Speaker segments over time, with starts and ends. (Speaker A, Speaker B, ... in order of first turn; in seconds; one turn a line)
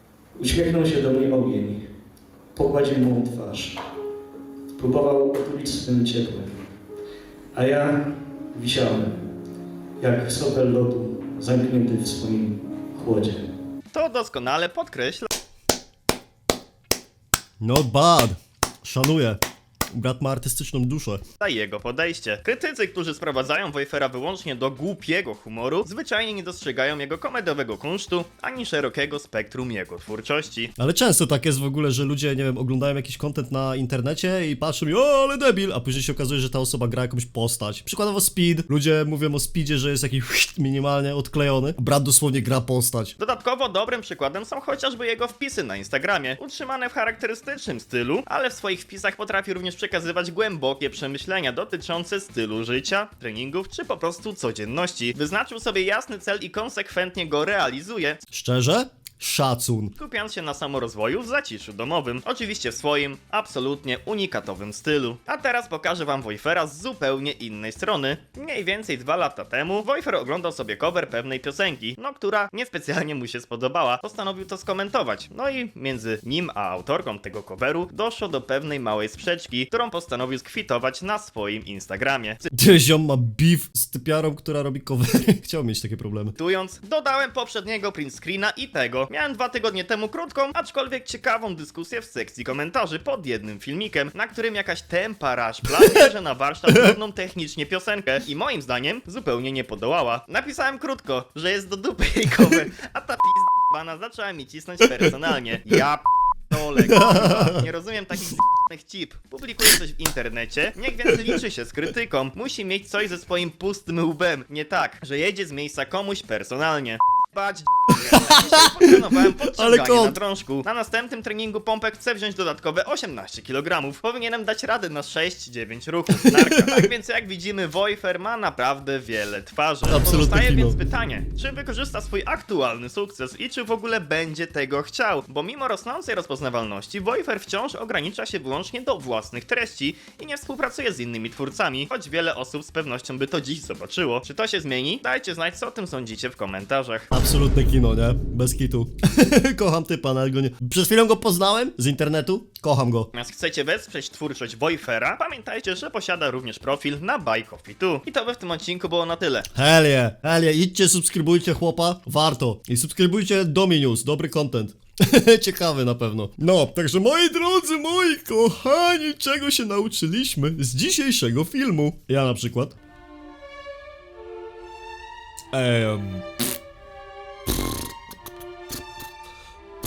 Speaker A: 0.4-1.8
Speaker A: 2.6-3.8
Speaker A: 4.8-6.5
Speaker A: 7.6-8.0
Speaker A: 8.5-9.2
Speaker A: 10.0-13.5
Speaker B: 13.9-15.3
Speaker C: 17.6-19.4
Speaker C: 19.9-21.2
Speaker B: 21.4-30.7
Speaker C: 30.8-43.1
Speaker B: 43.2-58.2
Speaker C: 58.3-59.9
Speaker B: 60.0-82.5
Speaker C: 82.5-86.3
Speaker B: 86.4-147.1
Speaker C: 96.7-97.0
Speaker C: 106.8-107.6
Speaker C: 111.1-111.3
Speaker C: 117.9-120.2
Speaker C: 126.1-126.9
Speaker C: 129.9-130.8
Speaker C: 147.1-153.1
Speaker B: 153.1-159.5
Speaker C: 159.5-172.8
Speaker C: 175.5-176.3